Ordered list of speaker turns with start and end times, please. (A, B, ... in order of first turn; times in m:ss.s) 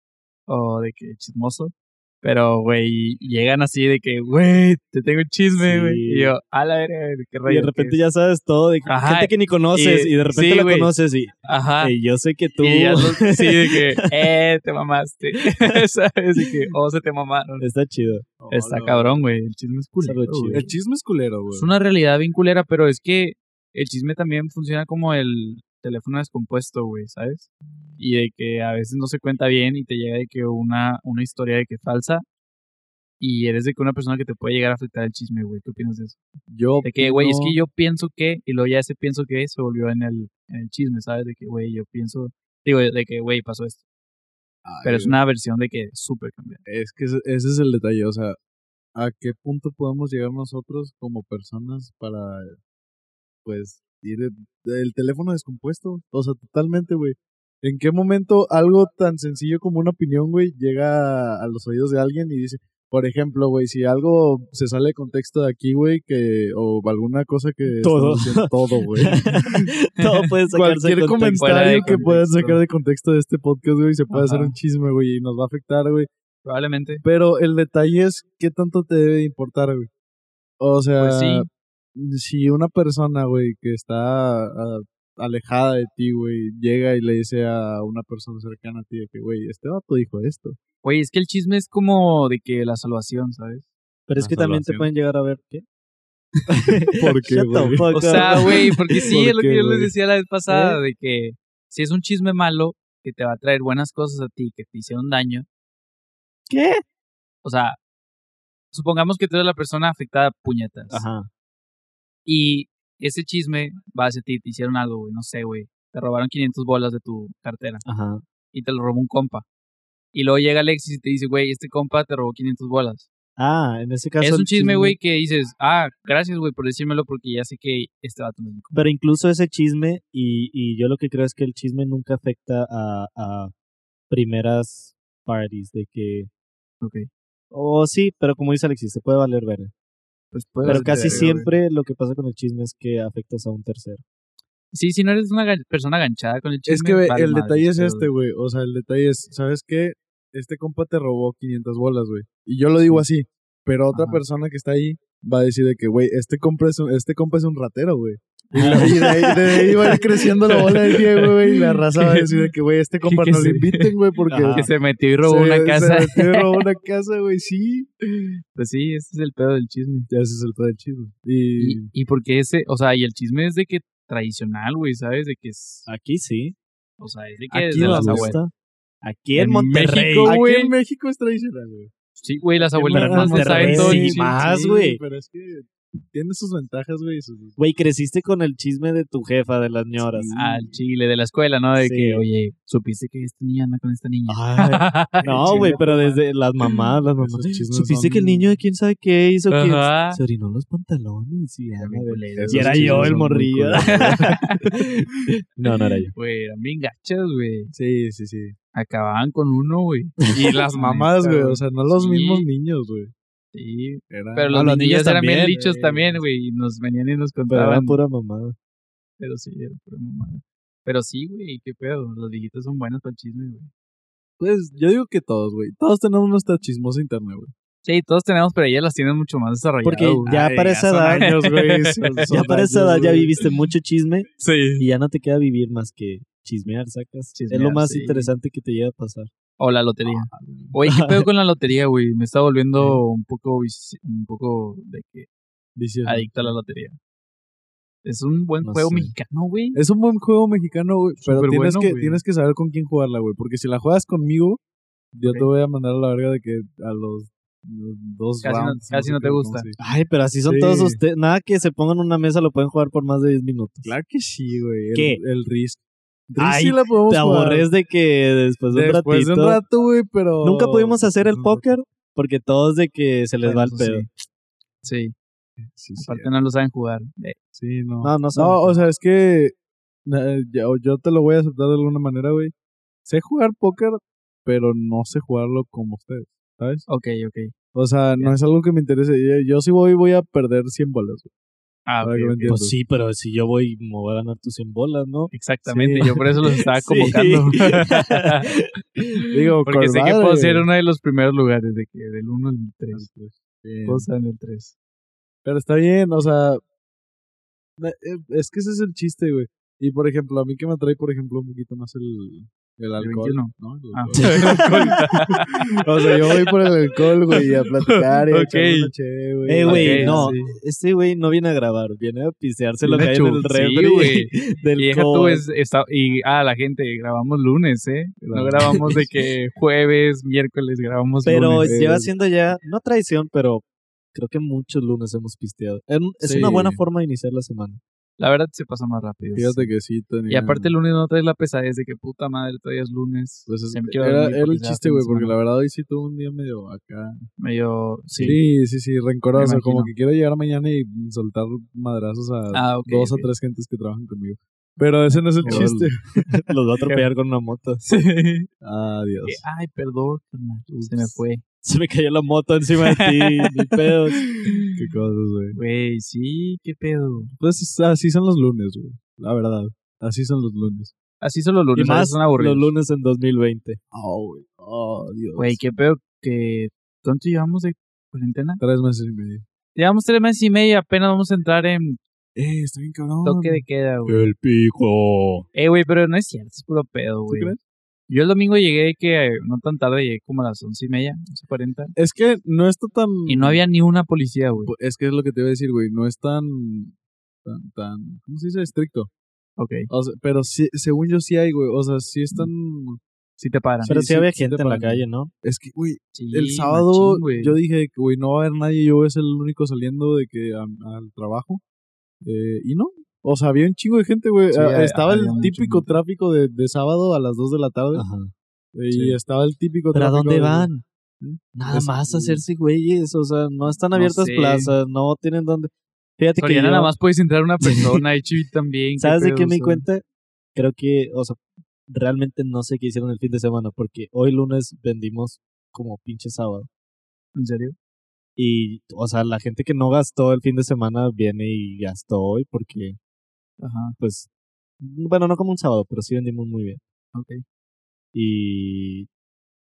0:00.5-0:08.0 A
0:05.6-0:06.3 B
0:07.4-0:14.2 B
0:08.9-0:10.9 A
0:11.5-0:11.9 A
0:12.6-0:17.6 A
0:15.4-0:15.8 B
0:17.6-0:18.2 B
0:18.4-0:19.2 C
0:18.5-0:20.7 A
0:20.0-0:20.6 B
0:20.5-0:21.7 C
0:21.5-0:32.2 A
0:33.2-0:36.2 A
0:36.5-0:37.6 C
0:36.8-0:43.8 A
0:44.6-0:45.2 C
0:44.8-0:46.6 A
0:46.6-0:48.4 C
0:48.9-0:52.6 C
0:53.4-1:09.7 C
1:07.8-1:11.8 B
1:10.0-1:10.3 A
1:10.5-1:16.1 C
1:11.2-1:12.6 A
1:14.1-1:14.6 A
1:16.4-1:17.0 A
1:17.0-1:19.9 C
1:20.6-1:30.6 C
1:21.0-1:21.5 A
1:30.8-1:33.7 A
1:34.1-1:35.6 B
1:34.2-1:34.9 C
1:36.5-1:39.1 B
1:37.0-1:38.5 C
1:37.9-1:45.5 A
1:39.0-1:39.9 C
1:40.5-1:40.8 B
1:46.5-1:46.8 B
1:47.4-1:47.8 A
1:48.7-1:51.0 A
1:50.9-1:51.3 B
1:52.2-1:57.8 A
1:57.8-1:58.2 B
1:58.5-1:59.4 A
2:00.1-2:03.1 A
2:03.4-2:05.0 B
2:04.2-2:08.8 A
2:08.7-2:13.5 B
2:14.1-2:16.3 B
2:16.8-2:17.1 A
2:17.5-2:19.7 B
2:20.3-2:21.5 A
2:20.6-2:21.5 C
2:20.6-2:24.0 B
2:24.7-2:28.1 A
2:26.7-2:44.7 C
2:33.9-2:34.2 A
2:38.5-2:40.0 B
2:38.6-2:38.9 A
2:40.8-2:42.5 A
2:43.0-2:43.9 A
2:44.3-2:44.7 B
2:44.5-2:46.6 A
2:45.2-2:47.9 C
2:48.5-2:50.1 A
2:50.1-2:51.9 C
2:51.6-2:55.9 A
2:55.9-2:56.6 B
2:57.0-2:58.4 A
2:57.5-2:58.4 C
2:57.9-2:58.5 B
2:59.0-3:00.4 B
2:59.4-3:00.7 A
3:00.2-3:01.9 C
3:02.2-3:04.3 A
3:02.6-3:07.6 C
3:02.9-3:05.0 B
3:07.6-3:10.3 B
3:10.0-3:10.8 C
3:10.3-3:15.8 A
3:11.8-3:12.2 B
3:14.3-3:26.1 B
3:15.2-3:16.2 C
3:17.1-3:18.6 C
3:19.5-3:20.2 A
3:21.8-3:23.2 A
3:22.4-3:24.4 C
3:23.7-3:24.7 A
3:26.1-3:27.7 A
3:27.7-3:28.5 C
3:28.7-3:32.5 A
3:30.3-3:33.1 C
3:33.5-3:38.0 A
3:34.1-3:34.6 C
3:34.5-3:35.6 B
3:35.5-3:36.2 C
3:37.5-3:38.6 B
3:39.2-3:43.7 A
3:44.4-3:47.5 C
3:47.8-3:52.4 A
3:49.8-3:51.3 B
3:50.2-3:53.4 C
3:52.3-3:59.3 B
3:54.4-3:54.8 A
3:57.3-3:58.3 A
3:59.6-4:05.3 A
4:00.0-4:00.7 C
4:00.9-4:01.2 B
4:05.8-4:06.5 C
4:06.0-4:07.0 A
4:08.0-4:09.8 A
4:08.6-4:09.1 B
4:09.7-4:14.6 C
4:11.2-4:12.2 A
4:15.1-4:19.8 C
4:15.2-4:15.5 A
4:18.4-4:19.7 A
4:19.8-4:23.9 B
4:20.4-4:21.0 C
4:23.8-4:27.7 C
4:24.9-4:25.2 B
4:26.4-4:29.6 B
4:28.7-4:31.7 C
4:30.4-4:34.1 B
4:33.4-4:34.1 A
4:34.8-4:35.1 A
4:35.6-4:36.3 C
4:36.0-4:37.4 A
4:37.5-4:39.5 C
4:38.0-4:38.8 B
4:40.0-4:42.5 C
4:43.0-4:46.8 C
4:46.9-4:47.5 A
4:47.7-4:51.3 C
4:51.9-4:52.6 A
4:52.0-4:52.8 C
4:52.4-4:55.3 B
4:55.3-4:58.5 A
4:55.7-4:56.3 C
4:56.4-4:59.2 B
4:59.3-5:00.7 C
4:59.6-5:03.0 A
5:02.9-5:04.1 C
5:03.8-5:04.7 A
5:05.4-5:06.6 C
5:07.8-5:20.4 C
5:13.0-5:15.6 A
5:14.2-5:14.6 B
5:17.3-5:18.9 A
5:19.4-5:25.4 B
5:19.6-5:20.5 A
5:22.8-5:31.7 A
5:28.2-5:29.1 C
5:28.6-5:29.0 B
5:31.2-5:37.8 B
5:31.6-5:32.1 C
5:36.2-5:36.8 C
5:38.2-5:39.7 A
5:39.3-5:40.7 C
5:40.3-5:45.4 A
5:43.5-5:47.2 C
5:47.4-5:48.4 A
5:48.1-5:48.4 B
5:48.2-5:56.3 C
5:49.3-5:49.9 A
5:52.5-5:53.3 A
5:55.1-5:55.8 A
5:55.4-5:57.8 B
5:57.8-5:58.5 A
5:58.6-5:59.4 C
5:59.2-6:01.4 A
6:00.7-6:01.1 C
6:01.6-6:04.2 B
6:02.8-6:04.7 A
6:04.7-6:05.6 C
6:05.5-6:07.3 A
6:07.4-6:10.9 C
6:11.2-6:12.7 A
6:11.7-6:13.8 B
6:13.9-6:15.6 C
6:15.4-6:18.6 A
6:18.6-6:19.4 C
6:19.7-6:22.0 A
6:22.4-6:24.7 C
6:23.2-6:24.3 A
6:24.6-6:25.4 B
6:25.5-6:27.6 A
6:27.3-6:27.6 C
6:28.1-6:31.9 A
6:32.0-6:33.6 C
6:33.3-6:34.7 A
6:34.6-6:39.1 C
6:39.6-6:39.9 A
6:39.9-6:43.0 C
6:43.4-6:43.9 A
6:43.8-6:51.6 C
6:43.8-6:45.3 B
6:46.1-6:47.6 A
6:52.2-6:58.0 C
6:54.5-6:56.0 A
6:57.9-6:58.3 B
6:58.7-7:02.4 C
6:58.9-6:59.2 A
6:59.9-7:00.8 B
7:01.5-7:06.9 B
7:03.9-7:04.7 A
7:06.4-7:09.8 A
7:07.7-7:08.0 B
7:09.0-7:10.0 B
7:10.5-7:16.7 B
7:17.3-7:17.8 A
7:18.4-7:23.0 B
7:23.6-7:24.0 A
7:24.0-7:24.3 B
7:24.8-7:26.8 B
7:27.1-7:27.4 A
7:28.1-7:29.1 B